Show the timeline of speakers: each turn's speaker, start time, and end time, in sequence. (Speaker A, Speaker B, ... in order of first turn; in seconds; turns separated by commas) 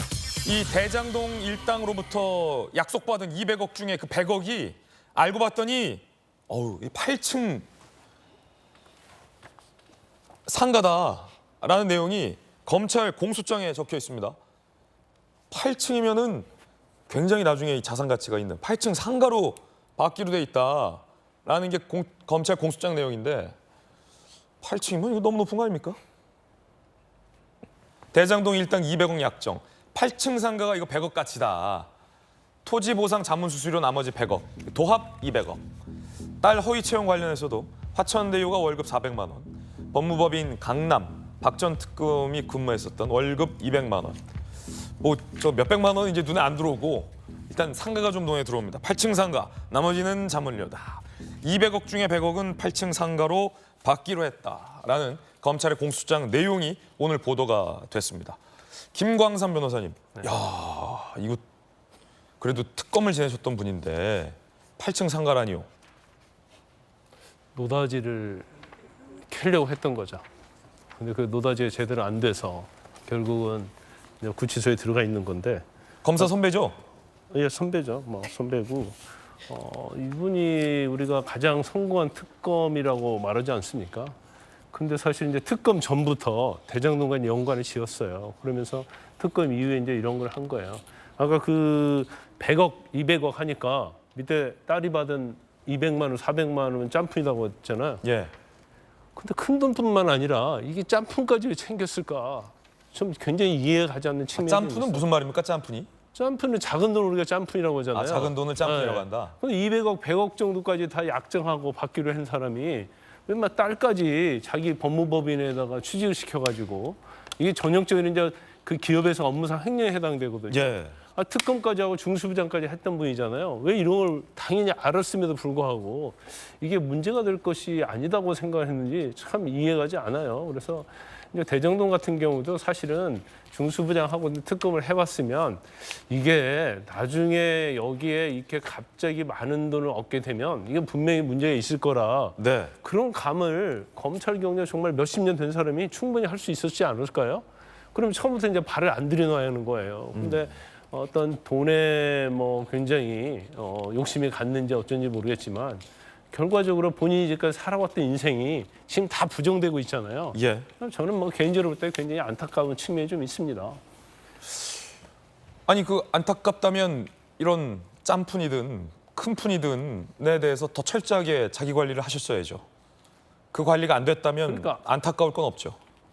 Speaker A: 0.5-7.7, Speaker A: 10.5-14.4, Speaker A: 15.5-16.5, Speaker A: 17.1-23.5, Speaker A: 24.6-26.0, Speaker A: 28.1-31.9, Speaker A: 32.6-35.6, Speaker A: 36.4-44.2, Speaker A: 45.0-58.4, Speaker A: 58.9-61.4, Speaker A: 62.4-65.7, Speaker B: 67.5-68.5, Speaker B: 69.3-70.2, Speaker B: 71.0-75.7, Speaker A: 76.0-76.8, Speaker B: 77.3-84.2, Speaker B: 84.7-98.0, Speaker A: 98.0-98.3, Speaker B: 99.2-105.1, Speaker A: 104.4-106.0, Speaker B: 106.1-163.8, Speaker A: 107.9-109.3, Speaker A: 120.5-121.0, Speaker A: 142.4-142.8, Speaker A: 150.1-150.5, Speaker A: 160.3-160.7, Speaker A: 165.7-172.7, Speaker A: 173.5-175.8, Speaker B: 174.5-174.8